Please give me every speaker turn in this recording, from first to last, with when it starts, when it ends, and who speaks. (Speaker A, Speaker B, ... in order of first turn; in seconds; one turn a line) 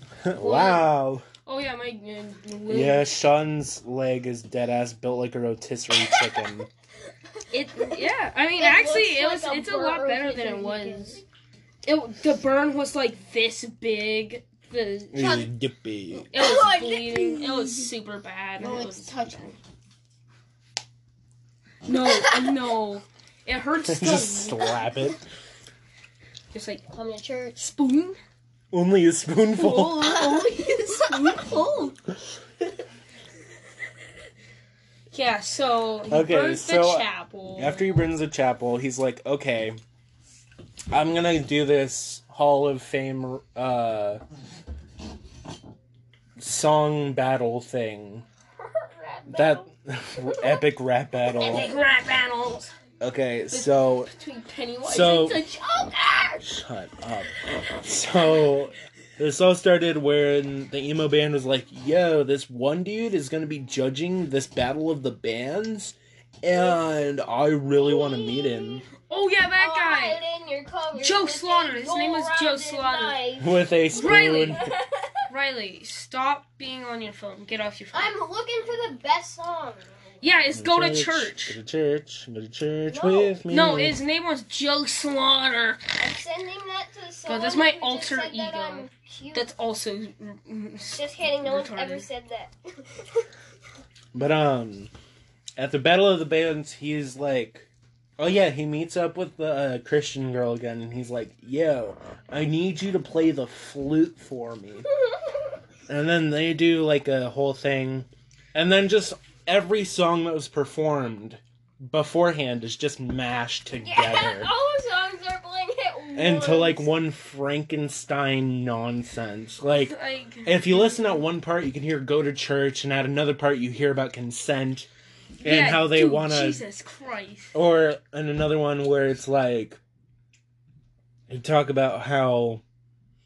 Speaker A: 0.2-1.2
Speaker B: 0.4-0.8
Speaker B: 1.4-3.1
Speaker A: 2.7-6.7
Speaker B: 7.5-11.2
Speaker C: 7.8-8.0
Speaker C: 8.6-11.2
Speaker B: 11.8-15.4
Speaker A: 15.1-16.3
Speaker C: 16.1-17.9
Speaker B: 16.3-19.5
Speaker C: 18.6-19.5
Speaker B: 21.8-24.8
Speaker C: 22.1-22.3
Speaker A: 23.8-25.2
Speaker B: 26.5-26.8
Speaker C: 26.9-27.6
Speaker B: 27.6-28.2
Speaker A: 28.7-30.0
Speaker B: 29.6-31.9
Speaker C: 30.0-31.7
Speaker B: 35.1-37.9
Speaker A: 36.1-39.8
Speaker A: 40.9-44.2
Speaker A: 46.4-48.2
Speaker C: 48.8-49.6
Speaker A: 49.3-51.7
Speaker B: 51.4-52.7
Speaker C: 51.4-51.7
Speaker A: 53.0-54.1
Speaker B: 53.5-55.9
Speaker A: 54.8-55.4
Speaker C: 55.7-56.4
Speaker A: 56.4-68.8
Speaker C: 67.8-68.8
Speaker B: 69.1-70.2
Speaker C: 69.5-73.5
Speaker B: 70.9-73.2
Speaker A: 73.4-74.7
Speaker B: 73.9-74.6
Speaker C: 74.5-75.2
Speaker B: 75.3-78.1
Speaker C: 77.9-80.2
Speaker B: 80.2-81.5
Speaker A: 80.5-84.0
Speaker C: 82.9-83.4
Speaker B: 83.5-85.8
Speaker C: 86.0-89.5
Speaker B: 87.2-92.0
Speaker C: 90.8-93.3
Speaker A: 94.1-94.9
Speaker A: 95.6-97.7
Speaker A: 98.2-104.9
Speaker C: 104.9-105.4
Speaker A: 105.9-114.5
Speaker C: 113.8-116.9
Speaker A: 116.2-124.9
Speaker B: 119.8-121.2
Speaker B: 125.4-127.5
Speaker A: 125.4-126.6
Speaker A: 127.5-129.8
Speaker A: 131.3-132.6